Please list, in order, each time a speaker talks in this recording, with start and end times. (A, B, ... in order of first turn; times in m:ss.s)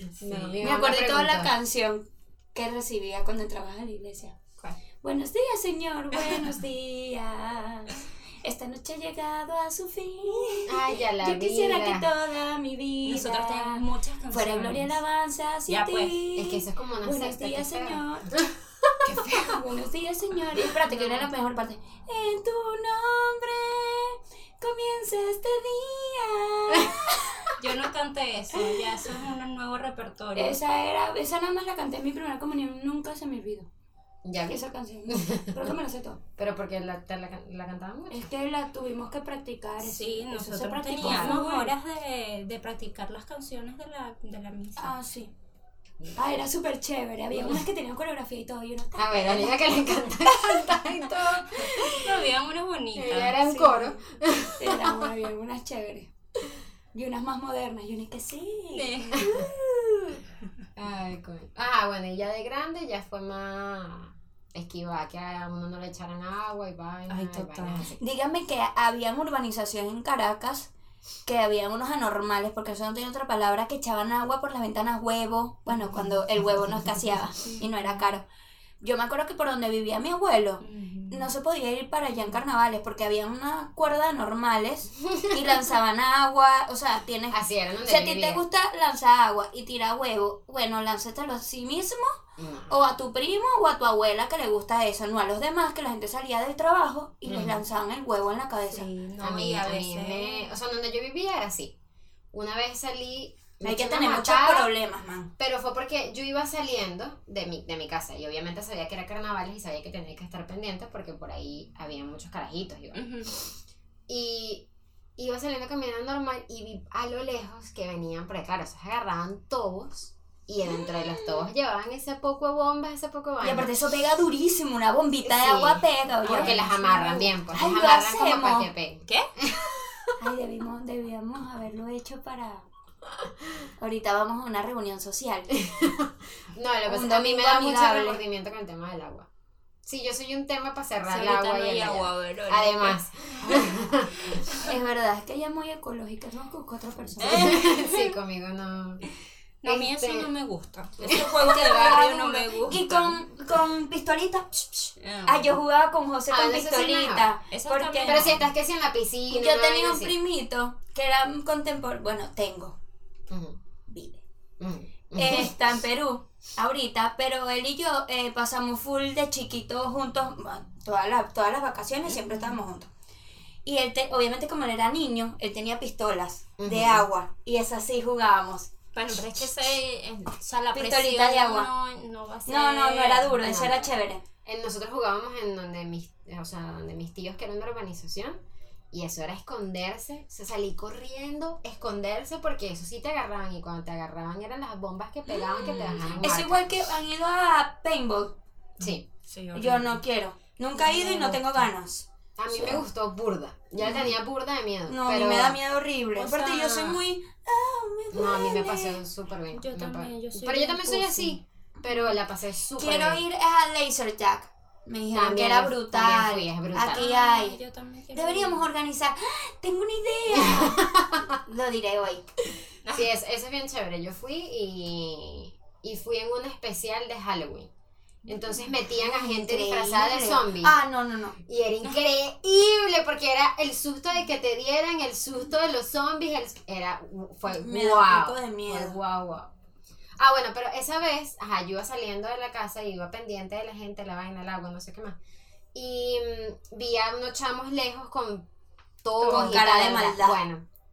0:00.2-0:01.5 A
0:00.2-0:00.6 B
0:00.6-0:04.4 C
0:05.0-0:18.3 C
0:10.7-0:12.1 A
0:13.0-0:15.0 B
0:15.7-0:16.2 B
0:16.4-0:19.3 A
0:19.0-0:27.5 C
0:19.1-0:19.4 B
0:20.9-0:21.2 B
0:27.6-0:30.6 B
0:30.4-0:33.7 C
0:34.2-0:35.7 A
0:34.4-0:36.2 C
0:36.4-0:38.3 A
0:38.1-0:41.7 C
0:39.8-0:44.9 B
0:41.0-0:41.3 A
0:44.8-0:45.3 C
0:46.2-0:49.7 C
0:49.0-0:52.1 A
0:51.7-0:53.8 B
0:51.7-0:52.0 C
0:53.0-0:55.1 A
0:53.4-0:54.0 C
0:54.6-0:56.1 C
0:56.9-1:00.2 C
0:58.7-0:59.3 B
1:00.8-1:08.0 A
1:07.1-1:07.9 B
1:08.0-1:10.7 C
1:11.2-1:18.2 C
1:17.4-1:18.1 B
1:18.8-1:32.2 C
1:20.6-1:21.3 B
1:27.3-1:28.4 A
1:32.4-1:32.8 A
1:32.7-1:38.9 C
1:37.3-1:37.6 A
1:38.7-1:40.5 B
1:39.2-1:41.7 A
1:42.3-1:44.7 A
1:43.6-1:45.3 C
1:45.4-1:53.4 A
1:52.9-1:53.3 B
1:54.1-2:03.7 A
2:03.4-2:08.7 C
2:05.2-2:10.1 A
2:06.2-2:07.1 B
2:10.2-2:12.7 C
2:13.8-2:15.6 C
2:15.5-2:19.3 A
2:16.9-2:18.2 C
2:19.9-2:24.4 A
2:21.1-2:24.7 B
2:24.6-2:27.6 C
2:27.2-2:28.1 B
2:27.2-2:29.1 A
2:29.6-2:33.2 B
2:29.6-2:30.3 A
2:31.0-2:31.9 A
2:31.0-2:38.4 C
2:35.0-2:35.5 B
2:36.3-2:37.3 A
2:37.5-2:38.4 B
2:38.0-2:40.1 A
2:39.3-2:42.8 C
2:43.3-2:43.6 A
2:43.9-2:44.2 C
2:44.6-2:45.6 A
2:45.2-2:52.9 C
2:52.1-2:52.6 B
2:53.6-2:58.7 C
2:56.6-2:57.1 A
2:58.9-3:03.4 B
3:00.7-3:01.7 C
3:02.5-3:04.2 C
3:03.4-3:08.4 A
3:08.9-3:16.8 A
3:15.3-3:16.2 B
3:16.2-3:18.4 C
3:18.8-3:20.0 B
3:19.5-3:22.8 C
3:20.8-3:21.4 B
3:21.0-3:21.4 A
3:22.4-3:25.6 A
3:24.9-3:29.0 C
3:26.2-3:27.0 B
3:28.1-3:33.2 A
3:29.5-3:31.4 B
3:32.8-3:37.6 C
3:35.1-3:37.1 A
3:36.9-3:38.6 B
3:38.1-3:42.3 C
3:40.4-3:41.3 A
3:43.0-3:47.7 A
3:48.3-3:50.8 A
3:48.9-3:51.4 C
3:51.5-3:59.5 A
3:57.5-3:59.0 C
4:00.2-4:05.2 A
4:05.8-4:08.5 A
4:09.0-4:10.6 A
4:09.2-4:09.6 B
4:09.2-4:10.4 C